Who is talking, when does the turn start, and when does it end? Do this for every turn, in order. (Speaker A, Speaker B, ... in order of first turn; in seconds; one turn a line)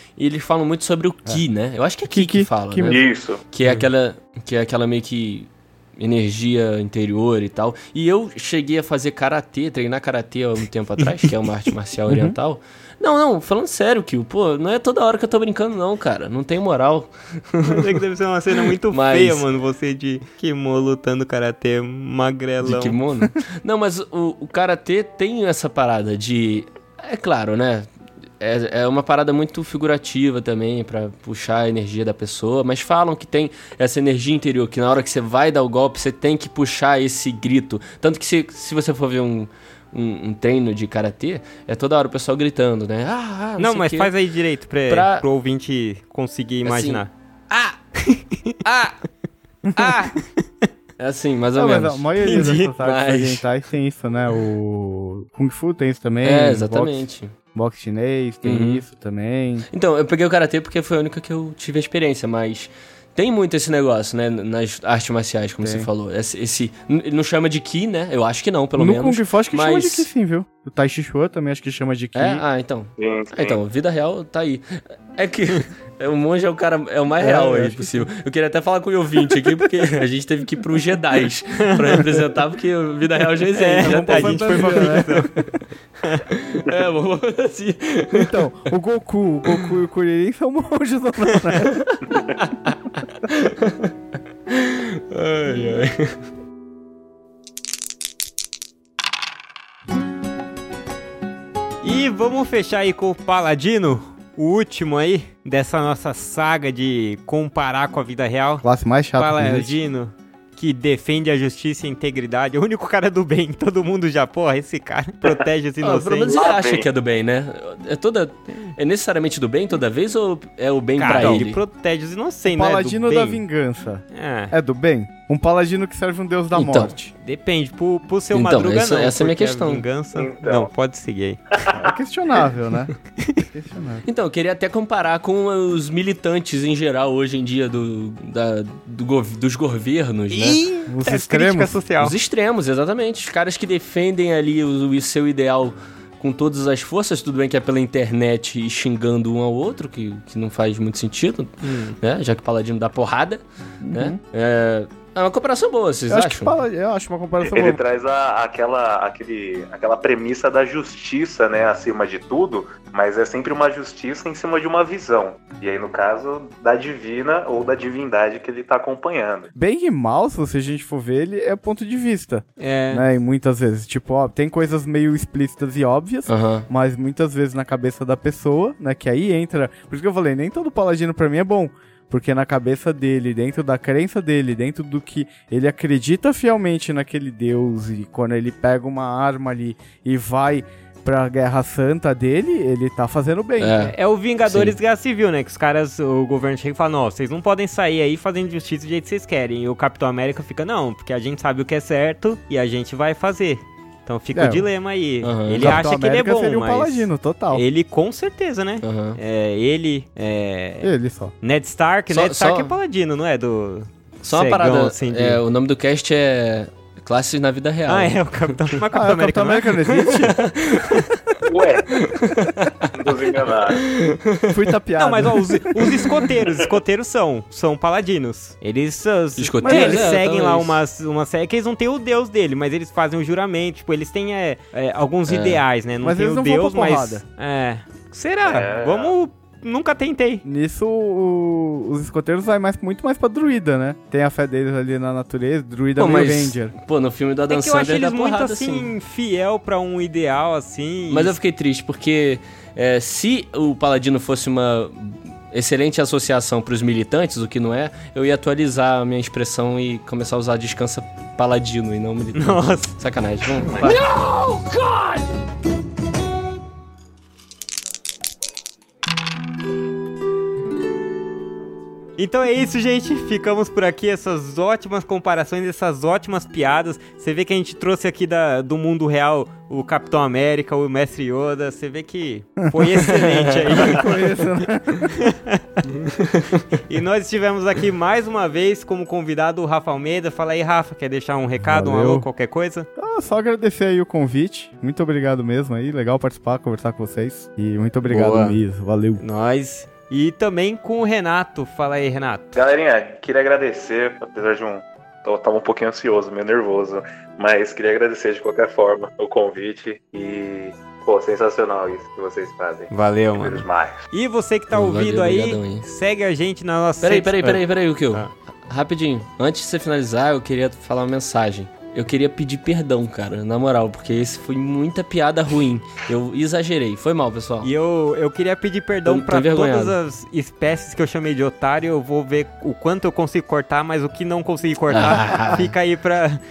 Speaker A: 0.2-18.0
Speaker B: 2.1-3.0
Speaker C: 2.9-3.4
Speaker B: 12.1-12.3
Speaker D: 17.6-23.0
Speaker A: 18.7-19.4
Speaker A: 22.6-27.9
Speaker A: 28.4-44.1
Speaker D: 43.6-47.1
Speaker A: 44.9-45.2
Speaker A: 46.6-47.8
Speaker D: 48.0-48.5
Speaker A: 48.6-49.0
Speaker A: 49.8-50.2
Speaker D: 49.8-50.7
Speaker A: 51.0-53.4
Speaker B: 51.5-57.0
Speaker D: 52.2-52.7
Speaker A: 56.2-57.3
Speaker B: 57.5-59.7
Speaker A: 58.4-58.8
Speaker A: 59.7-70.1
Speaker B: 65.6-65.9
Speaker B: 68.8-72.4
Speaker A: 72.1-85.5
Speaker C: 73.0-73.6
Speaker B: 77.2-78.0
Speaker D: 83.5-85.3
Speaker B: 83.8-85.3
Speaker A: 86.3-88.4
Speaker B: 88.1-92.0
Speaker A: 92.4-93.9
Speaker A: 94.5-96.2
Speaker D: 101.8-108.6
Speaker B: 108.6-109.8
Speaker D: 109.2-116.3
Speaker A: 115.8-121.6
Speaker C: 116.3-116.9
Speaker D: 121.0-123.4
Speaker B: 121.1-121.4
Speaker B: 122.5-127.1
Speaker D: 124.1-124.5
Speaker A: 126.5-126.9
Speaker D: 127.2-131.4
Speaker A: 128.3-129.8
Speaker C: 130.1-130.7
Speaker C: 131.5-131.9
Speaker B: 131.7-134.1
Speaker A: 134.0-140.6
Speaker D: 140.3-142.1
Speaker B: 140.9-141.8
Speaker A: 142.0-156.5
Speaker D: 151.6-152.0
Speaker B: 153.8-154.2
Speaker B: 156.1-157.8
Speaker C: 157.4-169.5
Speaker B: 169.5-193.9
Speaker D: 172.6-173.0
Speaker A: 176.3-176.7
Speaker A: 193.6-193.9
Speaker D: 193.9-210.9
Speaker A: 194.4-194.8
Speaker B: 204.3-204.7
Speaker A: 205.2-205.8
Speaker B: 205.6-207.6
Speaker A: 208.8-209.2
Speaker B: 210.8-211.3
Speaker D: 211.4-215.4
Speaker A: 212.1-212.7
Speaker A: 214.2-218.2
Speaker D: 217.9-219.8
Speaker B: 218.9-220.4
Speaker A: 220.2-221.4
Speaker C: 221.4-222.1
Speaker A: 221.9-223.1
Speaker C: 222.9-223.8
Speaker A: 223.8-224.6
Speaker B: 224.5-226.1
Speaker D: 225.0-240.4
Speaker A: 229.4-230.8
Speaker B: 229.6-230.2
Speaker A: 235.3-235.6
Speaker B: 236.0-237.2
Speaker C: 238.4-239.2
Speaker B: 240.4-246.7
Speaker A: 246.0-248.9
Speaker D: 247.5-251.4
Speaker A: 251.1-265.2
Speaker D: 262.3-262.9
Speaker D: 272.2-284.1
Speaker A: 283.2-283.7
Speaker B: 283.7-285.2
Speaker D: 285.1-285.6
Speaker A: 285.9-286.8
Speaker D: 286.9-292.9
Speaker B: 291.6-292.3
Speaker B: 293.0-299.2
Speaker D: 298.1-298.6
Speaker D: 299.2-302.6
Speaker C: 302.5-314.1
Speaker D: 312.9-318.3
Speaker A: 314.7-315.9
Speaker A: 317.0-327.7
Speaker D: 327.6-336.4
Speaker A: 329.1-330.0
Speaker A: 334.9-335.7